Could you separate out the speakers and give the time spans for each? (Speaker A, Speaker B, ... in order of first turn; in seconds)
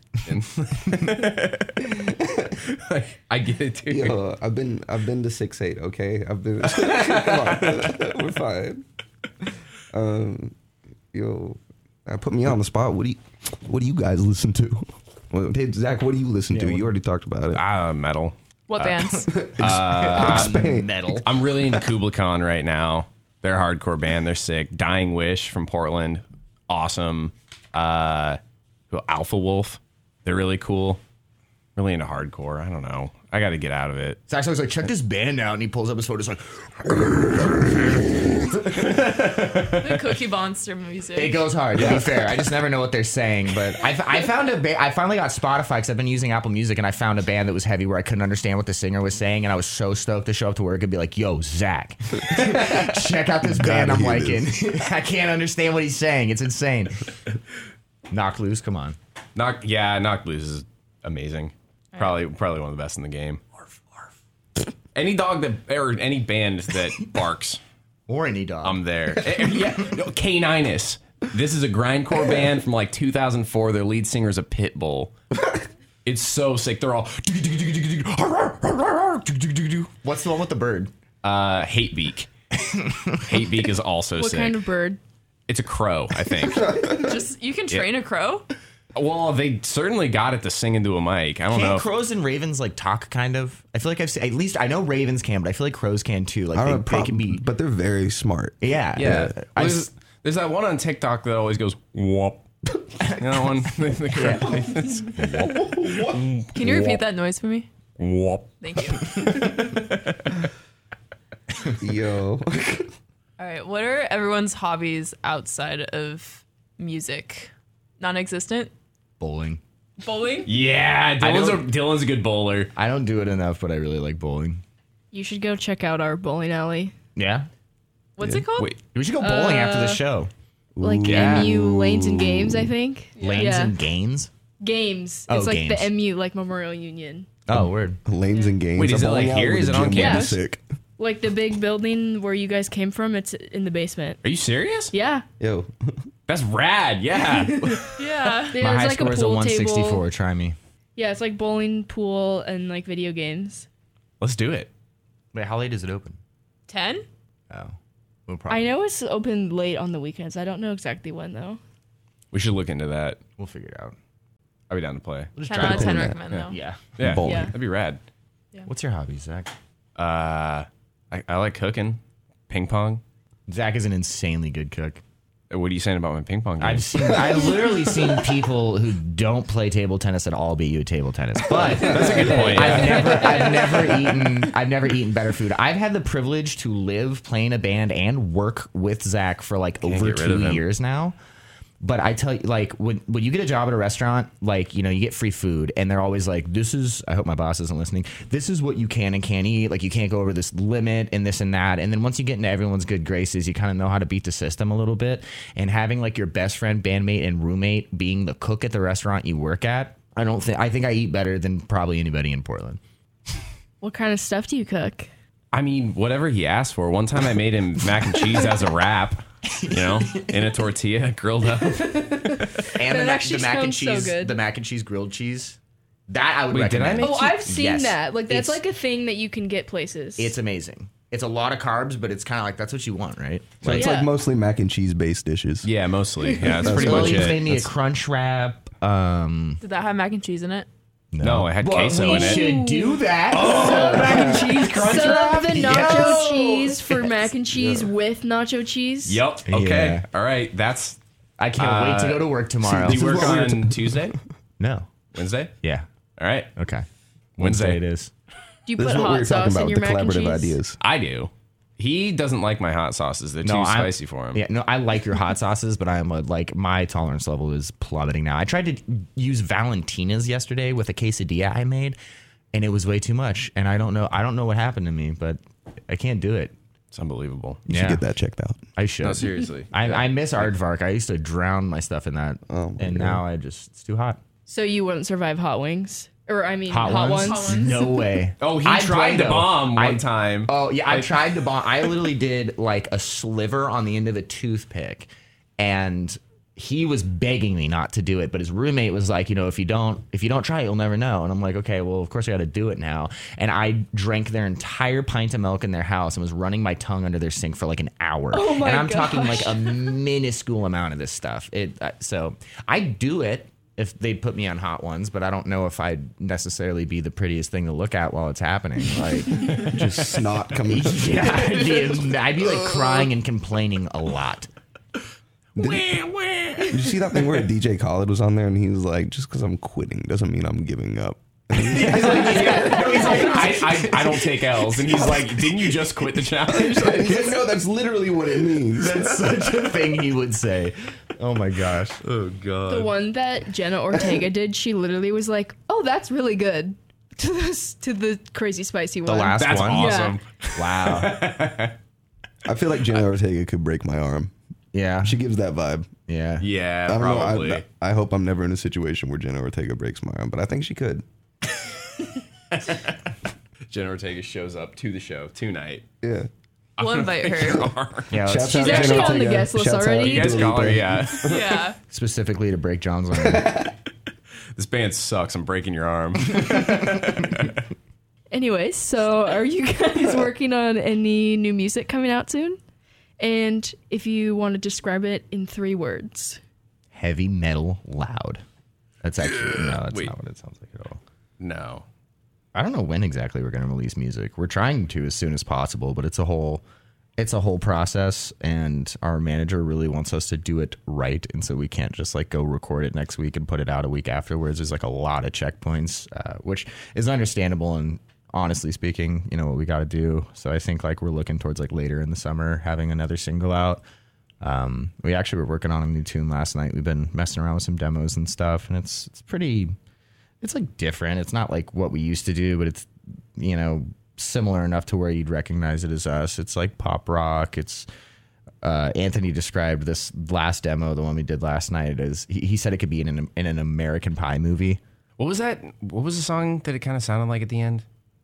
Speaker A: 0.2-4.2, 6.7-8.0, 17.5-18.4, 19.5-20.7, 21.2-28.4, 28.9-31.0, 31.8-34.2, 38.9-40.0, 41.8-42.3, 59.4-63.4, 64.9-67.6, 68.6-75.1, 76.0-79.9, 81.2-82.3, 83.1-84.6, 85.5-86.7, 89.0-91.8, 99.0-102.4, 103.2-107.0, 108.0-108.5, 109.0-110.1, 120.5-122.7, 131.0-131.5, 138.8-140.4, 144.2-144.9, 146.3-148.3, 154.2-154.7, 162.3-163.2, 164.7-165.4, 166.3-168.0, 170.0-173.0, 175.5-177.3, 181.7-183.6, 189.8-190.6, 215.5-222.5, 226.5-227.4, 235.6-237.6, 241.2-242.5, 243.3-247.1, 249.1-251.0, 251.6-254.2, 255.1-255.5, 256.2-256.5, 257.4-257.8, 260.8-264.4, 276.9-277.6, 279.0-280.5, 288.4-291.1, 325.6-327.0, 331.7-337.4, 342.0-342.9, 349.3-351.8, 356.4-357.6, 362.5-363.0, 363.7-365.9, 366.8-368.1, 370.0-371.4, 374.6-377.6, 389.4-390.1, 391.4-391.9, 435.2-437.9
Speaker B: 3.9-8.8, 9.9-10.6, 11.1-17.6, 19.3-20.9, 53.4-54.5, 86.5-87.2, 96.5-99.2, 105.2-106.3, 111.8-112.9, 128.2-128.5, 130.8-132.7, 137.5-140.6, 145.4-146.1, 165.5-166.2, 167.0-167.5, 181.7-182.7, 233.6-235.7, 236.4-237.6, 247.5-247.9, 252.7-254.2, 258.8-260.8, 277.7-278.6, 282.5-283.2, 319.5-321.6, 326.7-333.0, 336.5-339.2, 352.4-354.3, 355.0-355.9, 356.9-361.0, 366.0-366.3, 368.2-371.6, 373.1-373.7
Speaker C: 16.5-16.9, 19.6-21.3, 34.3-39.7, 41.1-57.1, 58.1-59.0, 68.1-68.8, 79.9-80.9, 82.6-83.4, 91.5-97.4, 98.6-99.9, 103.0-103.3, 104.1-104.6, 119.2-119.6, 121.2-121.7, 122.8-124.6, 127.2-127.5, 128.9-130.3, 133.2-134.3, 135.3-135.9, 137.5-138.0, 148.6-150.6, 155.3-156.2, 157.5-157.8, 158.3-158.7, 163.4-164.0, 165.4-166.8, 168.7-169.5, 173.5-175.0, 176.6-191.2, 191.8-212.8, 219.6-220.3, 222.7-225.6, 226.1-228.6, 230.2-233.9, 236.7-239.6, 241.1-246.6, 249.5-250.1, 251.4-253.4, 254.6-254.9, 256.6-256.9, 257.4-258.1, 263.4-272.0, 272.5-276.5, 277.7-278.0, 278.8-284.2, 286.7-319.8, 320.7-324.5, 331.6-334.8, 338.6-342.0, 349.1-351.2, 354.7-355.2, 356.1-356.5, 368.1-369.2, 371.9-373.7, 386.9-388.4, 389.0-391.0, 392.6-396.6, 397.2-413.8, 414.4-419.8, 420.4-427.9, 428.6-434.8
Speaker D: 18.7-19.4, 39.8-41.5, 86.8-88.5, 106.5-107.7, 108.6-109.6, 113.4-118.7, 120.1-120.3, 128.2-128.8, 148.0-148.6, 156.7-157.1, 165.5-166.6, 239.6-240.7, 286.9-287.9, 366.8-367.7, 371.1-371.8
Speaker E: 84.2-85.0, 120.1-120.5, 125.1-126.9, 129.2-130.0, 130.8-133.8, 134.6-137.3, 139.9-140.4, 141.0-144.2, 144.9-145.2, 147.3-147.8, 148.5-150.0, 151.0-153.7, 158.5-161.6, 167.2-167.5, 213.8-215.1, 221.8-224.4, 227.0-230.3, 233.7-234.1, 242.0-249.2, 258.7-260.6, 284.5-288.1, 308.3-310.0, 332.7-333.2, 342.7-350.2, 368.5-370.7, 378.3-382.6, 383.2-386.4